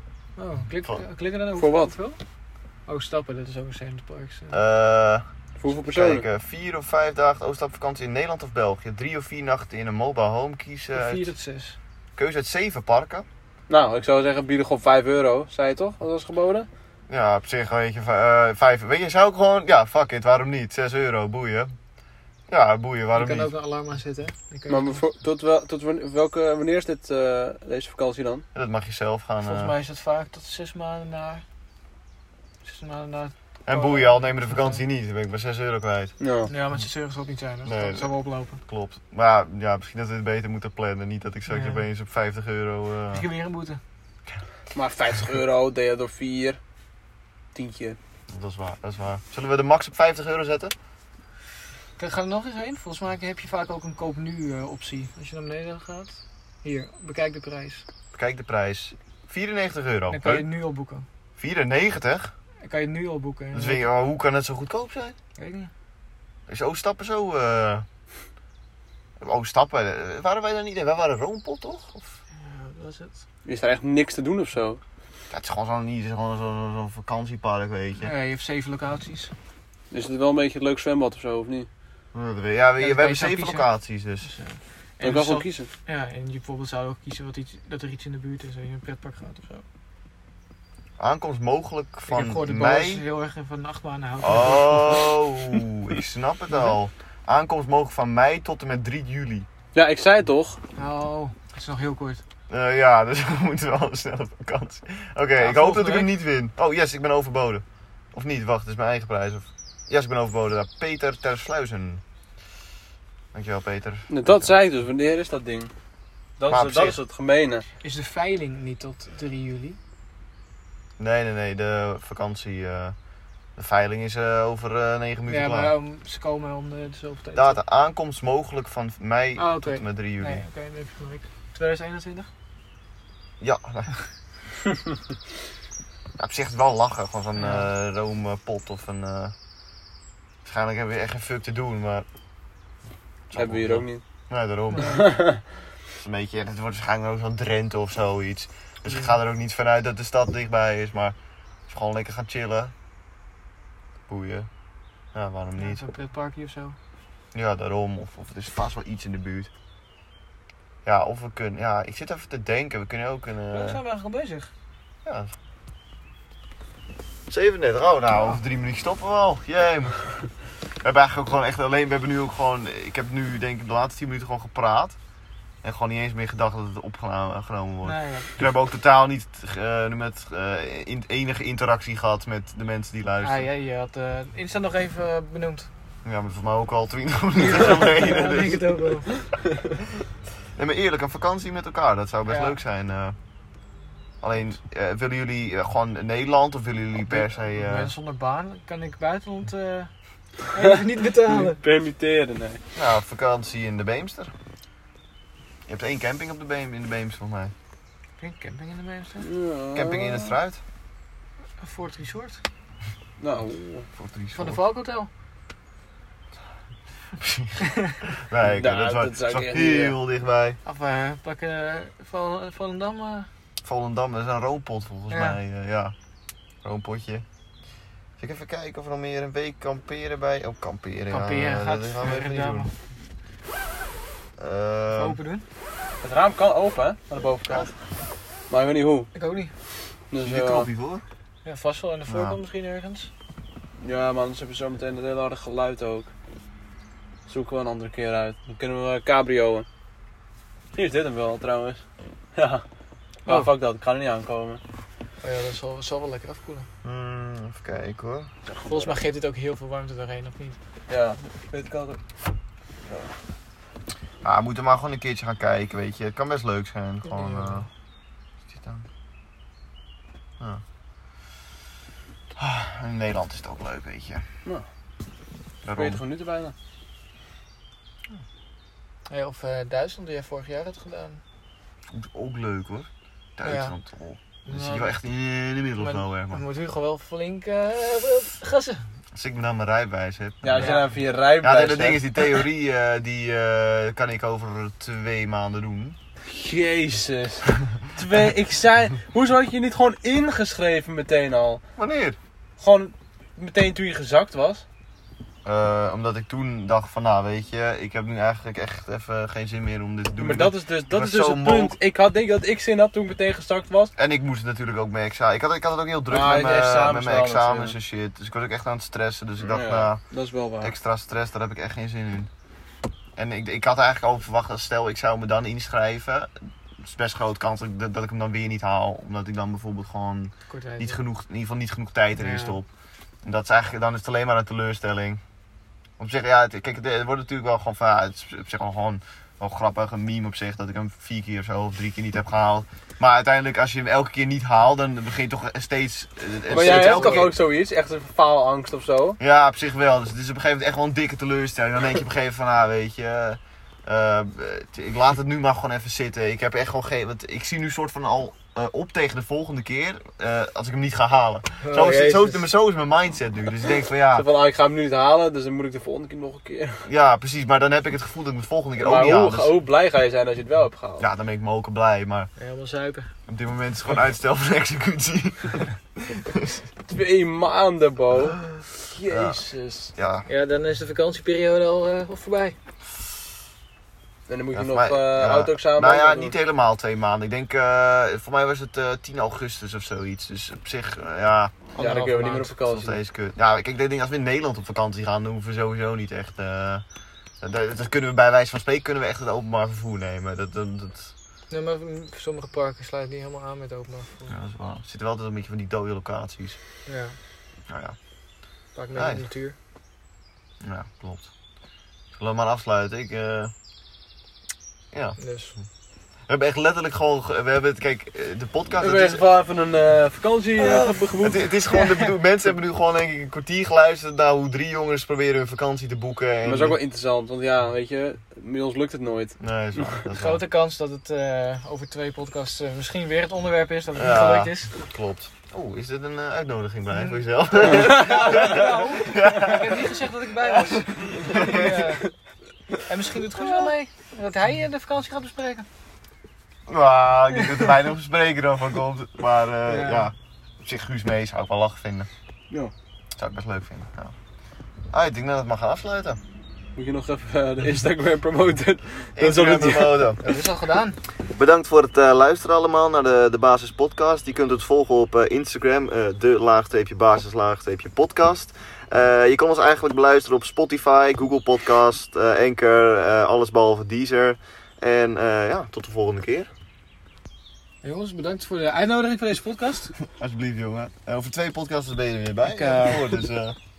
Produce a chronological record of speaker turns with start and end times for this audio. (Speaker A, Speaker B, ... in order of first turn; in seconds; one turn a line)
Speaker A: 0.4-2.2
Speaker B: 1.6-1.9
Speaker A: 2.9-4.5
Speaker C: 4.5-11.3
Speaker B: 5.6-6.2
Speaker A: 10.9-11.8
Speaker C: 12.2-13.2
Speaker B: 13.7-16.7
Speaker C: 17.1-21.7
Speaker C: 22.5-23.5
Speaker A: 23.1-25.0
Speaker B: 24.7-28.4
Speaker C: 28.5-29.7
Speaker A: 29.4-31.4
Speaker A: 32.6-34.8
Speaker C: 33.6-36.1
Speaker B: 36.2-36.5
Speaker A: 36.5-38.6
Speaker C: 37.6-38.1
Speaker C: 38.6-43.3
Speaker A: 41.5-41.8
Speaker A: 43.1-43.8
Speaker B: 44.7-46.6
Speaker B: 47.5-48.0
Speaker C: 48.3-50.7
Speaker A: 52.0-57.8
Speaker C: 58.1-60.5
Speaker A: 60.1-61.0
Speaker C: 61.4-62.3
Speaker A: 62.6-63.9
Speaker C: 63.5-65.2
Speaker A: 65.3-65.7
Speaker C: 66.5-67.8
Speaker C: 69.2-72.2
Speaker A: 72.4-73.2
Speaker B: 73.4-74.8
Speaker C: 75.3-78.1
Speaker A: 78.0-79.3
Speaker B: 79.9-81.7
Speaker C: 82.1-84.3
Speaker A: 82.8-83.7
Speaker A: 84.2-89.6
Speaker B: 85.0-85.7
Speaker C: 91.0-93.0
Speaker A: 92.1-95.2
Speaker C: 94.2-99.5
Speaker B: 99.7-100.6
Speaker A: 100.8-102.2
Speaker C: 102.5-112.0
Speaker A: 105.4-106.1
Speaker C: 113.3-114.5
Speaker B: 114.1-115.7
Speaker B: 116.4-117.7
Speaker C: 116.5-117.0
Speaker A: 117.8-119.8
Speaker C: 121.0-123.0
Speaker C: 123.5-125.7
Speaker A: 125.3-127.6
Speaker C: 127.3-130.4
Speaker A: 129.4-132.3
Speaker C: 133.4-133.9
Speaker C: 136.2-139.3
Speaker A: 137.3-137.7
Speaker C: 140.4-142.1
Speaker C: 143.3-145.1
Speaker B: 143.3-144.0
Speaker B: 144.8-145.4
Speaker C: 145.9-151.2
Speaker A: 148.9-149.1
Speaker C: 151.7-152.7
Speaker C: 154.1-154.5
Speaker C: 155.1-155.8
Speaker A: 155.6-156.8
Speaker C: 157.3-159.5
Speaker C: 160.8-163.8
Speaker A: 163.5-164.5
Speaker C: 165.0-165.3
Speaker C: 167.3-170.0
Speaker C: 170.8-175.0
Speaker C: 175.6-183.5
Speaker A: 177.8-178.4
Speaker A: 183.2-185.7
Speaker C: 186.0-188.9
Speaker A: 187.4-189.2
Speaker C: 190.6-193.2
Speaker A: 192.3-192.6
Speaker C: 194.2-197.9
Speaker A: 197.1-201.6
Speaker B: 200.5-202.6
Speaker C: 202.7-204.3
Speaker C: 205.7-207.5
Speaker A: 208.2-209.3
Speaker B: 209.2-210.3
Speaker C: 209.7-210.6
Speaker A: 211.6-212.4
Speaker B: 213.2-213.8
Speaker C: 213.9-214.6
Speaker A: 214.3-215.1
Speaker C: 217.2-220.6
Speaker B: 218.5-220.0
Speaker A: 220.6-223.3
Speaker C: 223.6-225.9
Speaker A: 225.1-225.4
Speaker C: 226.6-227.2
Speaker C: 228.2-232.7
Speaker A: 231.1-232.7
Speaker C: 234.4-235.2
Speaker A: 234.9-235.4
Speaker B: 236.0-237.7
Speaker B: 238.5-239.1
Speaker A: 239.1-239.5
Speaker B: 240.1-240.7
Speaker C: 240.2-241.0
Speaker A: 241.4-243.1
Speaker C: 242.1-242.4
Speaker B: 243.8-246.1
Speaker B: 247.3-249.7
Speaker B: 250.7-251.8
Speaker B: 252.3-252.6
Speaker B: 253.2-254.6
Speaker A: 253.2-253.5
Speaker A: 255.2-256.7
Speaker C: 256.8-258.3
Speaker B: 258.5-259.0
Speaker A: 258.6-260.6
Speaker B: 260.9-262.0
Speaker C: 264.2-267.7
Speaker A: 267.1-267.6
Speaker C: 268.5-268.9
Speaker C: 272.4-274.2
Speaker C: 275.6-276.0
Speaker B: 275.7-276.5
Speaker A: 279.1-281.2
Speaker C: 281.9-286.4
Speaker A: 283.4-283.7
Speaker A: 284.4-284.9
Speaker A: 285.8-288.8
Speaker C: 289.1-290.8
Speaker B: 290.4-292.4
Speaker A: 290.5-290.9
Speaker C: 291.4-296.0
Speaker B: 296.2-301.6
Speaker C: 301.8-302.2
Speaker B: 302.6-304.6
Speaker C: 305.4-311.8
Speaker B: 310.2-313.9
Speaker C: 313.9-320.0
Speaker B: 316.1-317.8
Speaker B: 319.4-320.7
Speaker C: 320.6-322.3
Speaker C: 323.2-332.7
Speaker A: 330.5-331.0
Speaker A: 332.2-332.6
Speaker C: 333.2-335.2
Speaker C: 336.0-347.3
Speaker B: 346.5-349.2
Speaker A: 346.7-347.2
Speaker C: 349.2-364.3
Speaker A: 361.6-362.5
Speaker B: 364.1-366.9
Speaker C: 366.8-369.5
Speaker B: 368.8-371.0
Speaker C: 371.0-372.3
Speaker A: 372.4-373.1
Speaker C: 373.3-376.6
Speaker B: 376.9-379.9
Speaker C: 378.5-379.4
Speaker C: 379.9-380.3
Speaker A: 380.3-382.6
Speaker B: 384.3-386.4
Speaker C: 384.5-396.8
Speaker B: 391.8-393.0
Speaker A: 391.8-392.0
Speaker C: 397.4-401.1
Speaker A: 401.5-404.3
Speaker C: 404.3-406.6
Speaker A: 406.9-407.1
Speaker C: 407.7-407.9
Speaker A: 408.7-409.6
Speaker C: 408.9-409.2
Speaker C: 410.6-411.3
Speaker C: 412.1-413.5
Speaker C: 414.9-415.2
Speaker A: 415.2-415.5
Speaker C: 416.3-419.2
Speaker B: 418.8-421.5
Speaker A: 420.7-420.9
Speaker C: 421.2-426.8
Speaker A: 421.7-422.1
Speaker B: 426.4-430.0
Speaker C: 429.4-430.4
Speaker A: 430.1-434.7
Speaker C: 433.9-441.9
Speaker A: 436.9-442.1
Speaker B: 437.6-438.8
Speaker A: 442.8-445.6
Speaker C: 446.7-452.1
Speaker A: 447.4-447.7
Speaker A: 449.7-450.1
Speaker C: 453.2-454.1
Speaker C: 454.9-456.2
Speaker B: 456.8-460.1
Speaker C: 459.2-460.2
Speaker A: 460.2-461.0
Speaker C: 461.3-476.5
Speaker A: 477.8-479.9
Speaker C: 480.0-483.6
Speaker A: 482.4-483.2